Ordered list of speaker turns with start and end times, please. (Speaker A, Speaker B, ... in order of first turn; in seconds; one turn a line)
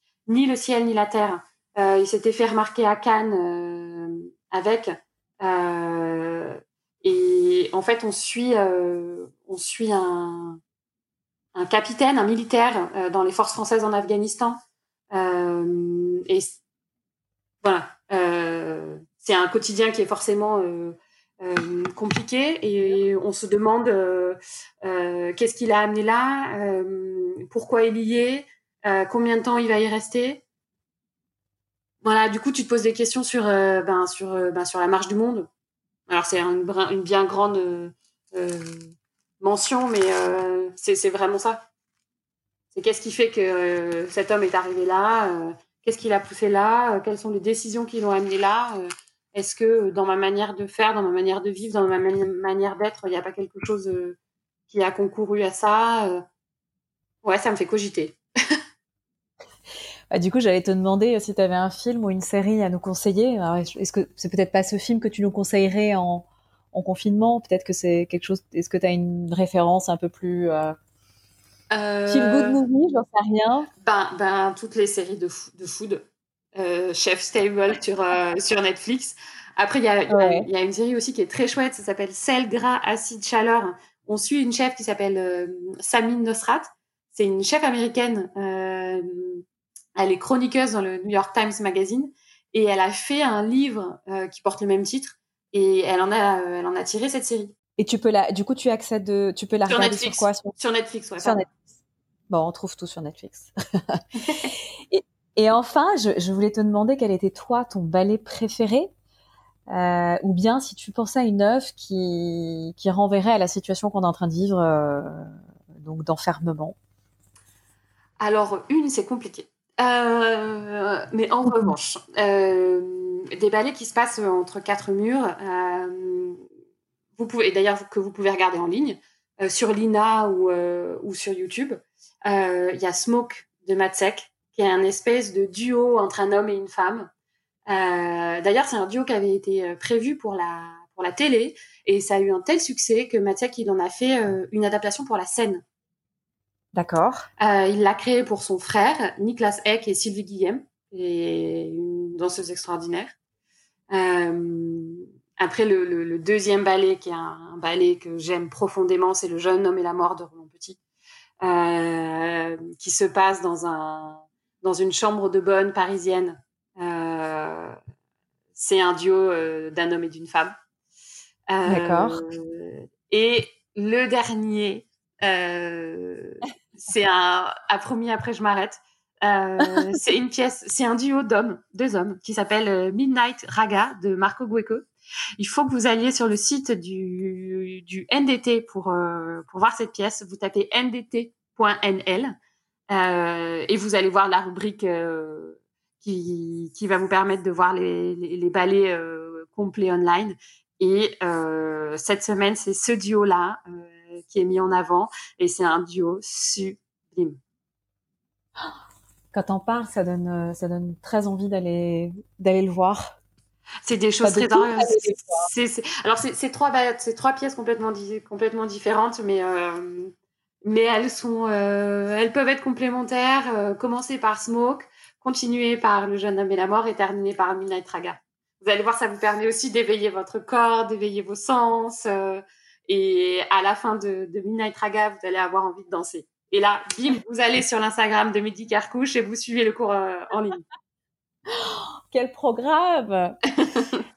Speaker A: 0.3-10.6
Speaker A: 11.5-14.6
Speaker A: 15.1-16.5
Speaker A: 17.6-30.4
Speaker A: 32.0-35.5
Speaker A: 36.1-41.6
Speaker A: 42.7-54.2
Speaker A: 54.7-56.2
Speaker A: 57.2-58.2
Speaker B: 60.1-70.8
Speaker A: 71.7-72.6
Speaker B: 72.1-73.7
Speaker A: 73.8-76.0
Speaker A: 76.5-89.4
Speaker B: 80.1-80.5
Speaker A: 90.0-97.5
Speaker B: 97.8-100.5
Speaker A: 99.7-101.5
Speaker B: 101.2-101.6
Speaker B: 102.3-104.0
Speaker A: 104.2-104.5
Speaker B: 104.9-108.9
Speaker B: 109.7-116.8
Speaker A: 118.2-126.4
Speaker B: 121.5-121.7
Speaker A: 127.2-137.1
Speaker A: 137.7-145.6
Speaker B: 146.7-147.3
Speaker A: 147.4-153.1
Speaker A: 153.9-160.8
Speaker A: 161.4-167.8
Speaker A: 168.5-170.5
Speaker A: 171.5-192.4
Speaker B: 171.7-172.2
Speaker A: 192.9-207.4
Speaker B: 209.3-213.2
Speaker A: 213.8-220.1
Speaker B: 214.2-215.5
Speaker A: 220.6-240.6
Speaker B: 241.5-243.4
Speaker A: 243.6-244.0